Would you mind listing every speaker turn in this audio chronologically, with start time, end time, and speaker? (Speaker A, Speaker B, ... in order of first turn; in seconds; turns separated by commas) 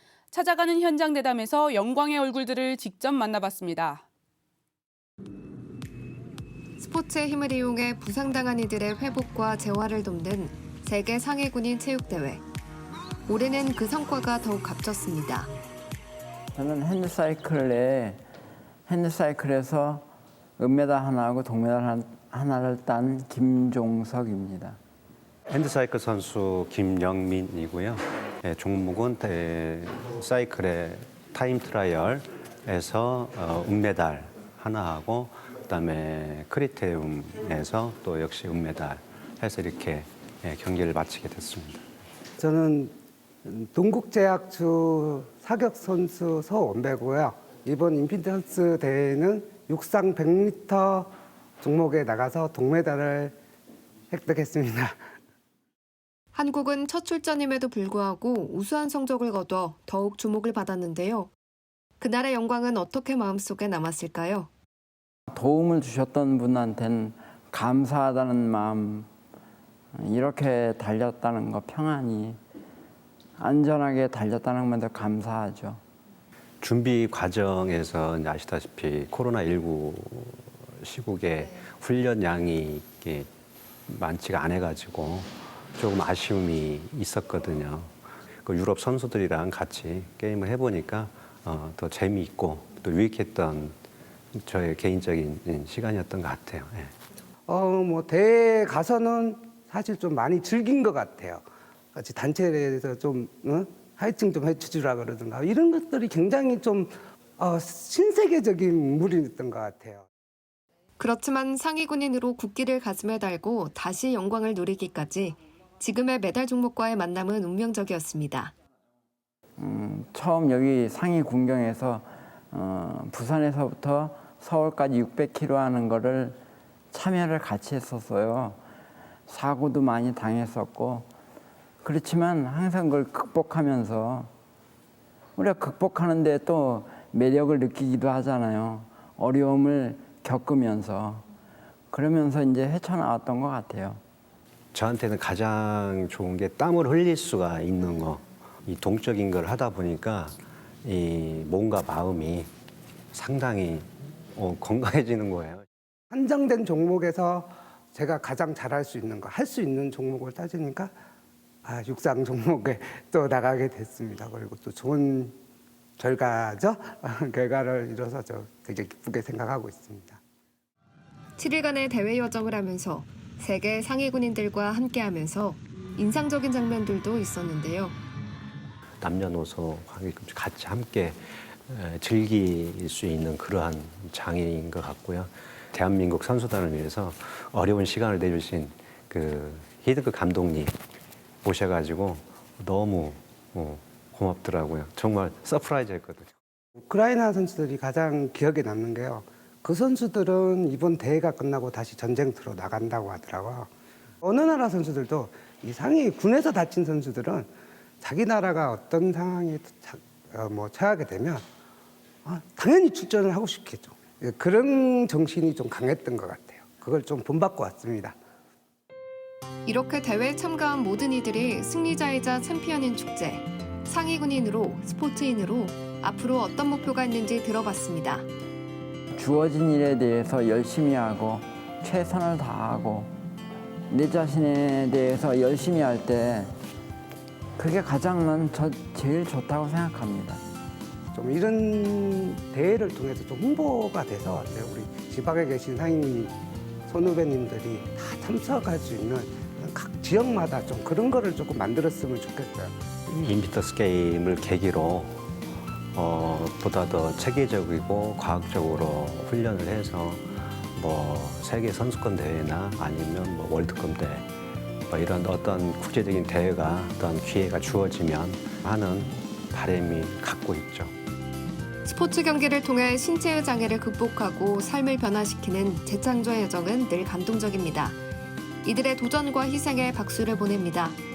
Speaker A: 0.3-4.0, Speaker B: 6.8-12.4, Speaker B: 13.3-15.5, Speaker C: 16.5-18.2, Speaker C: 18.9-20.1, Speaker C: 20.6-24.8, Speaker D: 25.5-41.8, Speaker E: 42.4-53.4, Speaker E: 54.1-55.0, Speaker B: 56.3-61.3, Speaker B: 62.0-64.5, Speaker C: 65.3-69.1, Speaker C: 69.9-72.4, Speaker C: 73.4-75.8, Speaker D: 76.6-83.3, Speaker D: 83.9-93.8, Speaker D: 94.3-96.9, Speaker E: 97.5-101.4, Speaker E: 102.0-110.1, Speaker B: 111.0-118.5, Speaker C: 119.6-126.4, Speaker C: 126.9-128.6, Speaker C: 129.3-131.1, Speaker C: 131.8-134.3, Speaker C: 135.4-141.2, Speaker C: 141.9-144.0, Speaker D: 144.7-152.5, Speaker D: 153.1-155.7, Speaker E: 156.1-160.9, Speaker E: 161.6-165.3, Speaker E: 166.0-170.2, Speaker B: 171.4-178.0, Speaker D: 179.0-190.8, Speaker D: 191.4-196.3, Speaker E: 196.9-203.7, Speaker E: 204.2-207.5, Speaker E: 208.0-211.4, Speaker E: 212.2-218.2, Speaker B: 219.7-228.3, Speaker C: 229.1-233.1, Speaker C: 233.9-236.5, Speaker C: 237.6-240.4, Speaker E: 241.1-246.3, Speaker E: 246.9-252.8, Speaker D: 253.1-255.3, Speaker D: 255.9-264.3, Speaker D: 264.9-270.9, Speaker B: 271.9-278.0, Speaker B: 278.6-281.0